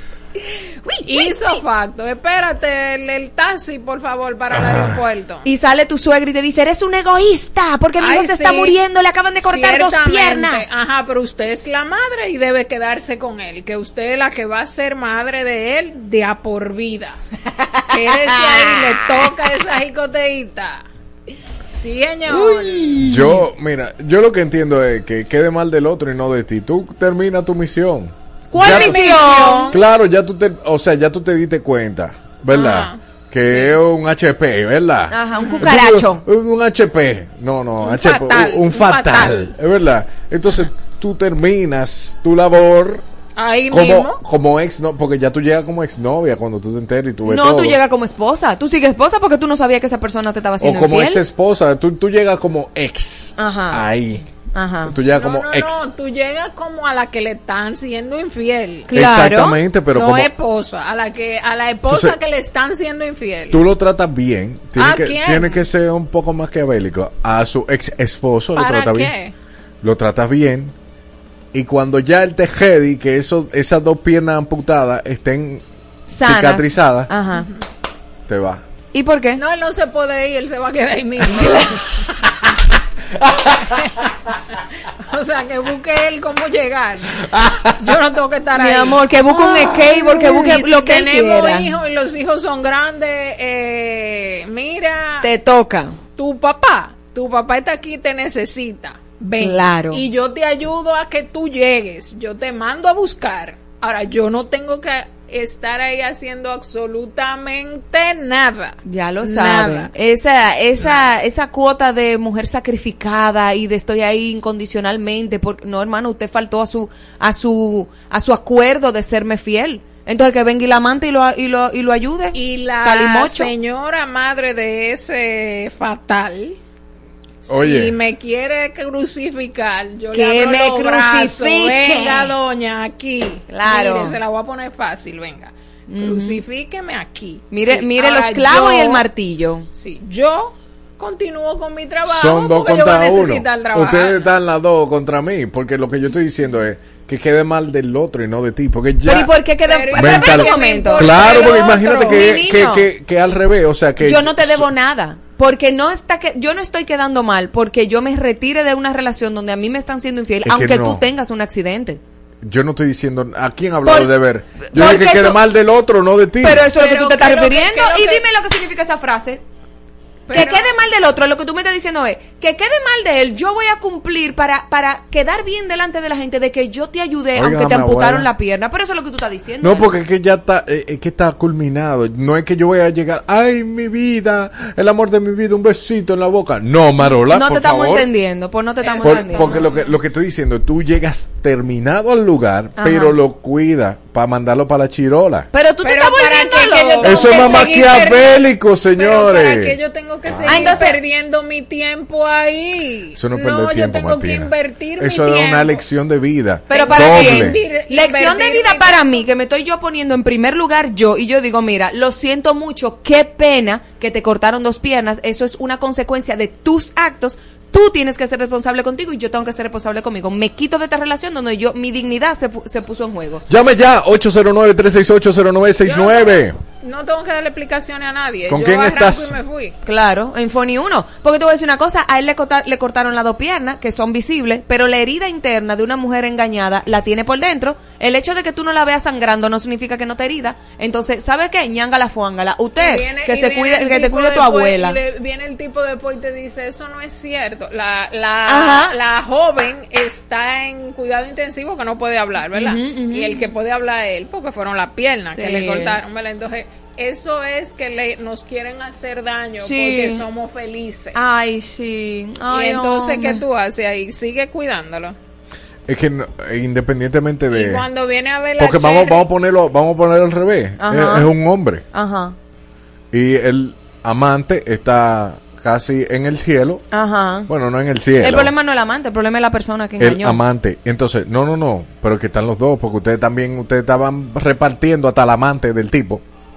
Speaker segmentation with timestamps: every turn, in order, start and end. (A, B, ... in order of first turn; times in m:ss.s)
0:00.8-0:01.5 A
0:01.1-0:05.5 B
0:04.5-0:05.0 C
0:05.4-0:10.8 A
0:08.0-0:08.8 B
0:09.4-0:17.2 B
0:17.9-0:20.8 B
0:21.6-0:22.9 B
0:22.3-0:23.4 A
0:23.0-0:29.0 C
0:28.5-0:29.8 A
0:28.6-0:29.8 B
0:29.7-0:43.0 C
0:32.5-0:33.8 B
0:35.1-0:36.2 A
0:35.4-0:35.7 B
0:37.8-0:39.5 B
0:43.4-0:44.2 B
0:43.7-0:47.8 C
0:47.3-0:51.2 A
0:50.6-0:54.2 C
0:53.4-0:53.9 A
0:54.5-0:55.0 A
0:54.8-0:55.9 C
0:55.1-0:58.9 B
0:58.9-0:59.6 A
0:58.9-1:00.3 C
0:59.9-1:03.6 B
1:01.9-1:02.2 C
1:03.5-1:09.2 C
1:04.8-1:05.6 B
1:08.6-1:09.3 B
1:09.8-1:10.7 C
1:11.5-1:15.6 C
1:16.1-1:17.5 A
1:16.2-1:17.1 C
1:17.4-1:17.6 B
1:18.3-1:18.6 C
1:18.9-1:19.4 A
1:19.4-1:21.8 B
1:25.1-1:27.2 B
1:27.8-1:35.3 B
1:28.6-1:31.7 A
1:35.2-1:36.0 A
1:36.2-1:49.9 B
1:39.4-1:40.0 A
1:48.8-2:03.5 A
2:02.3-2:06.6 B
2:07.5-2:19.0 B
2:07.5-2:08.0 C
2:10.1-2:12.3 A
2:13.5-2:14.2 A
2:15.9-2:16.4 A
2:17.5-2:19.7 A
2:19.7-2:24.3 B
2:22.1-2:29.3 C
2:29.0-2:32.9 A
2:29.6-2:32.2 B
2:29.9-2:34.7 C
2:34.0-2:42.0 A
2:40.4-2:41.0 C
2:42.4-2:46.7 C
2:43.8-2:44.1 A
2:44.6-2:45.4 A
2:46.4-2:49.4 A
2:46.7-2:48.2 B
2:50.3-2:50.7 B
2:50.3-2:59.9 A
2:57.4-2:58.3 C
2:59.6-3:08.1 C
3:07.1-3:09.7 A
3:08.8-3:09.8 B
3:09.0-3:15.5 C
3:12.8-3:13.2 A
3:15.5-3:17.8 A
3:15.8-3:18.4 B
3:17.0-3:20.8 C
3:19.0-3:25.8 B
3:20.4-3:21.0 A
3:23.2-3:27.6 C
3:26.7-3:29.0 B
3:26.7-3:43.4 A
3:43.5-3:46.6 C
3:45.8-3:49.8 B
3:48.5-3:49.4 C
3:49.8-4:05.0 A
4:02.8-4:21.2 B
4:08.5-4:09.0 A
4:12.5-4:13.5 A
4:15.3-4:16.0 A
4:19.6-4:20.2 A
4:21.2-4:23.4 A
4:22.5-4:25.2 B
4:25.9-4:27.9 C
4:27.5-4:29.2 B
4:28.6-4:31.8 C
4:30.8-4:31.3 A
4:31.9-4:32.4 A
4:33.1-4:36.8 C
4:36.9-4:37.5 A
4:37.5-4:38.5 C
4:38.2-4:40.4 A
4:40.0-4:46.2 C